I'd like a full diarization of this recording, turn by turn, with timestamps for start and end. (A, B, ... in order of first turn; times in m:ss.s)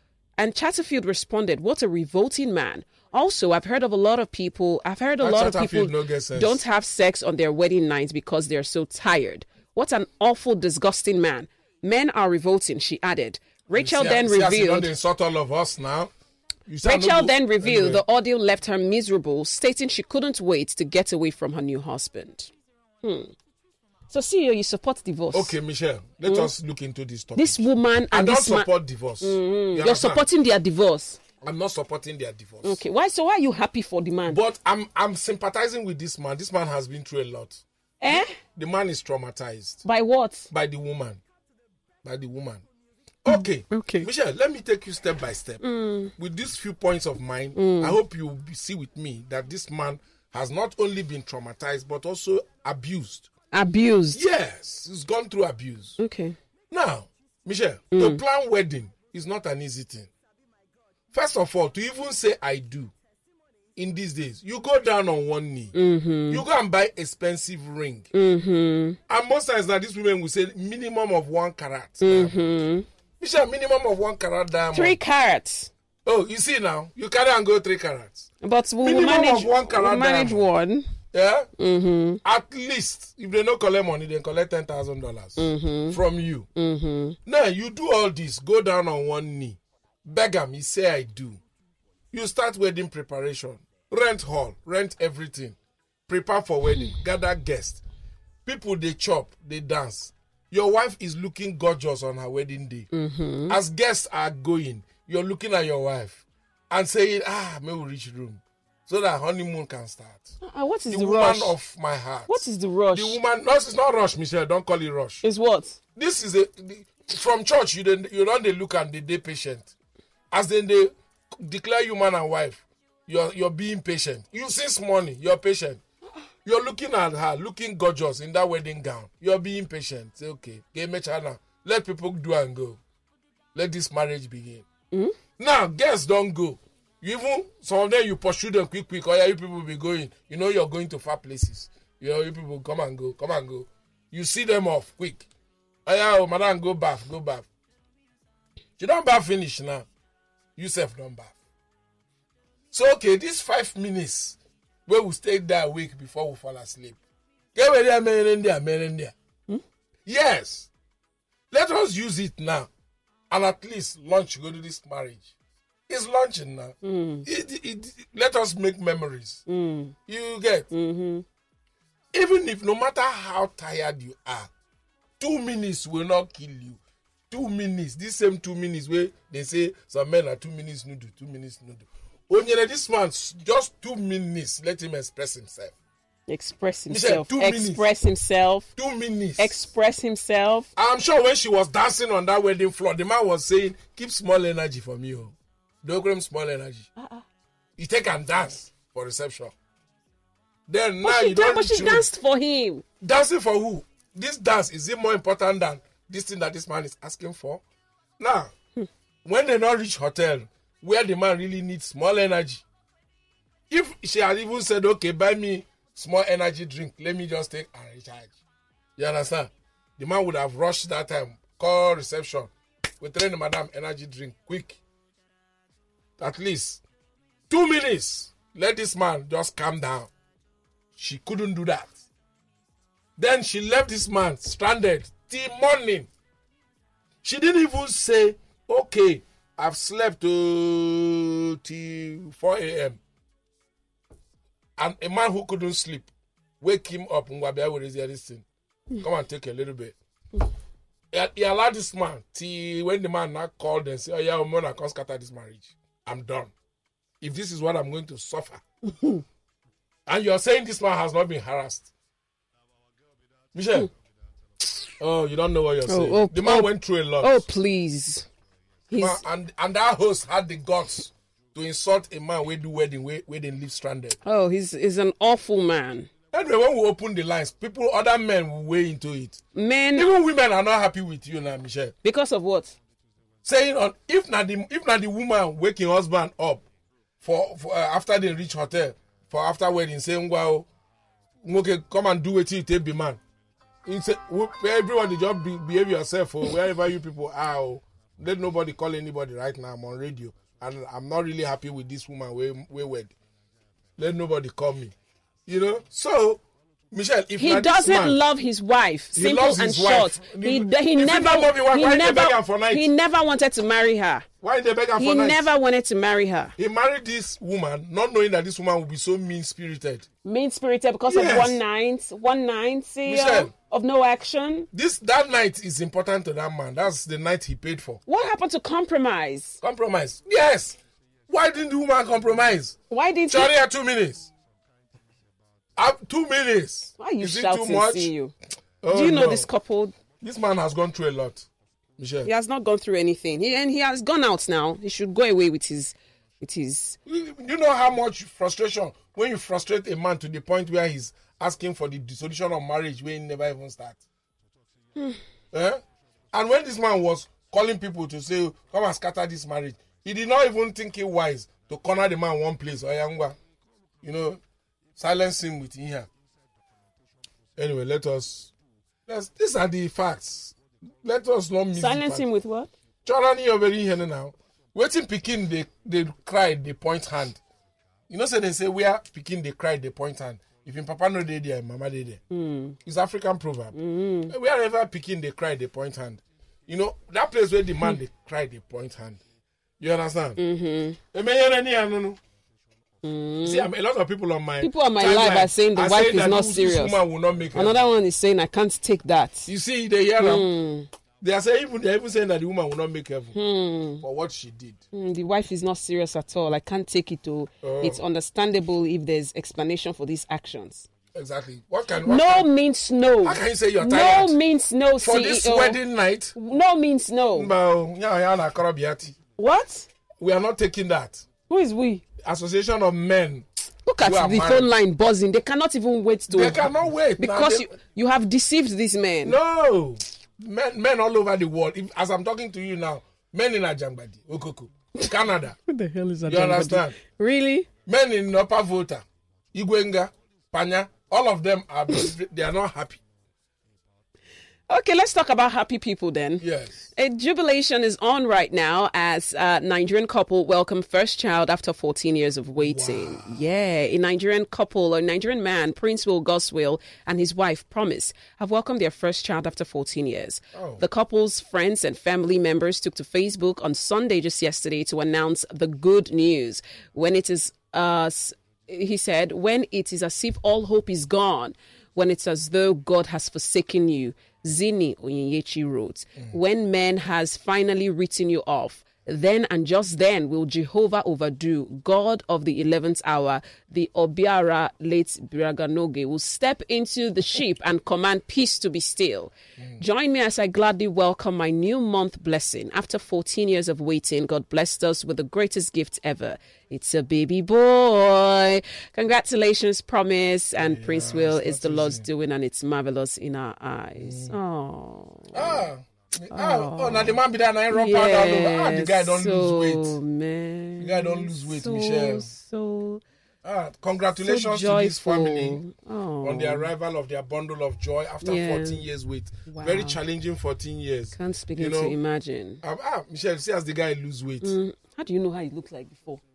0:00.4-0:14.9 A
0:05.2-0:06.6 B
0:13.7-0:16.1 B
0:16.7-0:18.0 B
0:16.8-0:22.5 A
0:23.0-0:23.3 A
0:24.1-0:25.5 A
0:25.3-0:30.2 B
0:26.2-0:26.5 A
0:27.4-0:31.2 A
0:31.4-0:32.8 B
0:32.6-0:34.4 A
0:34.3-0:39.8 B
0:38.0-0:38.4 A
0:39.8-0:40.5 A
0:40.5-0:41.2 B
0:42.0-0:42.6 B
0:43.2-0:45.6 B
0:43.3-0:44.1 A
0:45.6-0:46.1 A
0:46.1-0:53.3 B
0:47.5-0:48.0 A
0:53.5-0:54.2 A
0:54.1-0:56.0 B
0:56.0-0:56.4 A
0:56.7-1:00.1 B
0:57.9-0:58.2 A
1:01.1-1:02.9 B
1:03.8-1:05.7 B
1:05.7-1:06.4 A
1:06.3-1:08.1 B
1:08.1-1:09.0 A
1:09.1-1:12.3 B
1:12.0-1:12.9 A
1:13.2-1:15.0 B
1:14.7-1:15.7 A
1:16.0-1:18.3 B
1:18.4-1:20.9 A
1:18.8-1:20.4 B
1:21.1-1:21.5 B
1:21.6-1:22.2 A
1:22.2-1:26.5 B
1:25.4-1:26.0 A
1:26.5-1:27.2 A
1:27.2-1:31.4 B
1:32.1-1:35.6 B
1:36.1-1:37.8 B
1:38.4-1:42.9 B
1:42.9-1:43.6 A
1:43.5-1:50.4 B
1:50.4-1:51.6 A
1:50.9-1:55.2 B
1:52.3-1:53.2 A
1:55.2-1:55.8 A
1:56.0-1:59.7 B
2:00.3-2:05.8 B
2:06.4-2:12.8 B
2:13.5-2:14.6 B
2:15.4-2:25.3 B
2:25.8-2:27.4 B
2:28.8-2:29.8 B
2:30.6-2:31.3 B
2:32.7-2:37.0 B
2:37.5-2:39.1 B
2:40.0-2:40.7 B
2:41.5-2:42.7 B
2:43.3-2:45.3 B
2:45.9-2:49.4 B
2:46.8-2:47.3 A
2:49.5-2:49.9 A
2:50.1-2:50.7 B
2:50.7-2:51.2 A
2:52.1-2:54.5 B
2:55.2-2:56.8 B
2:57.3-3:05.7 B
3:06.3-3:08.7 A
3:06.9-3:07.9 B
3:08.8-3:09.6 B
3:09.4-3:10.7 A
3:10.8-3:16.9 B
3:17.0-3:17.2 A
3:17.8-3:19.5 B
3:20.7-3:22.1 B
3:21.0-3:22.8 A
3:23.0-3:27.6 B
3:28.2-3:28.5 B
3:29.2-3:32.6 B
3:33.7-3:38.3 B
3:39.0-3:44.8 B
3:46.2-3:46.8 B
3:47.5-3:50.1 B
3:51.0-3:52.0 B
3:53.2-3:56.1 B
3:57.2-4:03.0 B
4:04.8-4:06.1 B
4:06.6-4:08.4 B
4:09.0-4:10.0 B
4:11.1-4:16.5 B
4:17.2-4:18.6 B
4:18.9-4:19.2 A
4:20.1-4:21.9 B
4:23.5-4:23.9 B
4:25.0-4:27.4 B
4:25.9-4:28.3 A
4:28.9-4:29.2 A
4:29.0-4:34.2 B
4:34.2-4:36.1 A
4:36.3-4:39.4 B
4:39.5-4:40.1 A
4:39.9-4:41.9 B
4:42.0-4:42.8 A
4:43.4-4:46.6 B
4:47.2-4:50.7 B
4:51.4-4:53.2 B
4:53.8-5:03.1 B
5:04.0-5:04.9 B
5:05.4-5:06.4 B
5:06.9-5:08.2 B
5:07.4-5:14.2 A
5:09.1-5:12.9 B
5:14.4-5:15.5 B
5:15.0-5:16.5 A
5:16.6-5:20.0 B
5:20.2-5:24.7 A
5:21.0-5:21.6 B
5:23.0-5:23.5 B
5:24.7-5:28.0 B
5:28.1-5:29.6 A
5:29.6-5:32.8 B
5:32.9-5:33.5 A
5:33.3-5:34.3 B
5:35.8-5:38.1 B
5:37.0-5:38.3 A
5:38.8-5:39.5 B
5:38.9-5:39.9 A
5:40.2-5:41.5 B
5:42.0-5:42.3 B
5:42.2-5:47.0 A
5:47.0-5:54.0 B
5:55.5-5:55.8 B
5:56.3-6:03.4 B
6:04.0-6:04.4 B
6:05.0-6:06.1 B
6:07.6-6:08.5 B
6:09.1-6:12.2 B
6:11.7-6:12.7 A
6:13.0-6:17.4 B
6:18.1-6:22.2 B
6:22.3-6:22.8 A
6:22.8-6:23.7 B
6:23.7-6:24.3 A
6:24.3-6:29.2 B
6:29.8-6:30.4 B
6:30.4-6:31.0 A
6:31.1-6:32.2 B
6:33.0-6:33.7 A
6:33.4-6:37.8 B
6:34.6-6:37.0 A
6:37.5-6:39.5 A
6:39.5-6:40.5 B
6:40.2-6:40.9 A
6:41.2-6:43.4 B
6:43.3-6:44.0 A
6:44.0-6:44.8 B
6:44.9-6:50.9 A
6:47.6-6:48.0 B
6:51.1-6:52.5 B
6:52.0-6:55.8 A
6:53.2-6:54.4 B
6:55.0-6:56.4 B
6:56.3-6:57.5 A
6:57.3-6:59.2 B
6:59.4-6:59.9 A
7:00.2-7:01.2 B
7:01.5-7:02.0 A
7:02.2-7:03.5 B
7:03.8-7:06.7 A
7:04.0-7:04.7 B
7:06.3-7:07.7 B
7:07.2-7:09.4 A
7:09.2-7:15.6 B
7:15.7-7:17.7 A
7:16.3-7:17.0 B
7:17.8-7:23.0 B
7:24.7-8:25.7 A
7:26.4-7:26.9 B
7:32.6-7:33.4 B
7:40.5-7:40.8 B
8:20.6-8:22.0 B
8:24.0-8:24.4 B
8:25.3-8:30.0 B
8:26.3-8:27.2 A
8:27.7-8:33.0 A
8:30.8-8:32.3 B
8:33.4-8:35.6 B
8:34.2-8:36.7 A
8:36.2-8:42.0 B
8:38.2-8:38.9 A
8:39.5-8:40.0 A
8:41.1-8:42.6 A
8:42.6-8:44.5 B
8:44.4-8:46.2 A